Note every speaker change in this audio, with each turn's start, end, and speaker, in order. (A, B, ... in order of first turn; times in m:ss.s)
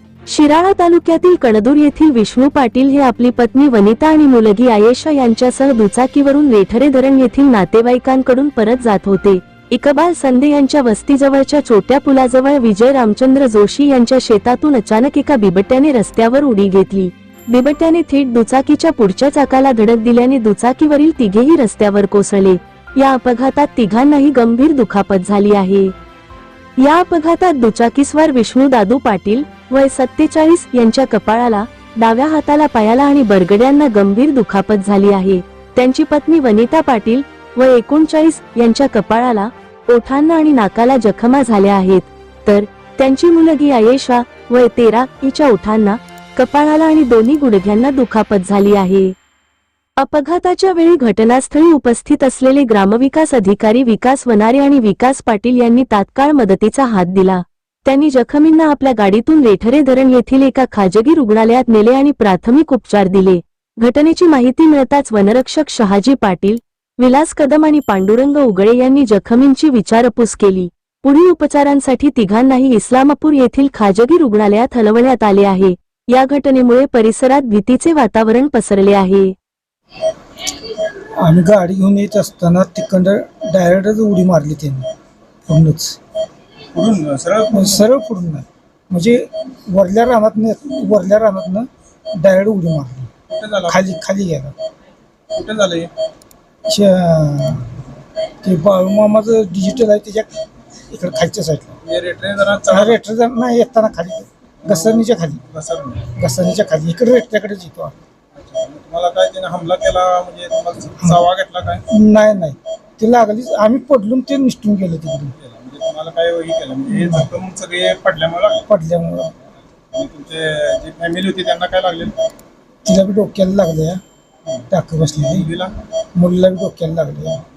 0:00.3-0:25.9 A
0:26.8-0:49.2 A
0:50.0-1:19.3 A
1:21.2-1:24.8 B
1:25.5-1:26.0 B
1:26.7-1:27.9 C
1:27.5-1:33.1 B
1:33.3-1:33.9 C
1:33.6-1:34.6 B
1:35.3-1:35.9 C
1:36.7-1:37.7 B
1:38.4-1:40.4 B
1:40.9-1:41.8 B
1:41.8-1:43.0 C
1:42.7-1:45.4 B
1:44.6-1:46.1 C
1:46.0-1:48.0 B
1:48.4-1:51.8 C
1:51.0-1:51.2 B
1:51.9-1:55.3 B
1:55.4-1:58.6 C
1:56.9-1:57.3 B
1:58.7-1:59.3 B
1:59.9-2:02.2 C
2:02.8-2:04.0 B
2:04.5-2:05.7 C
2:04.7-2:05.5 B
2:06.1-2:07.4 B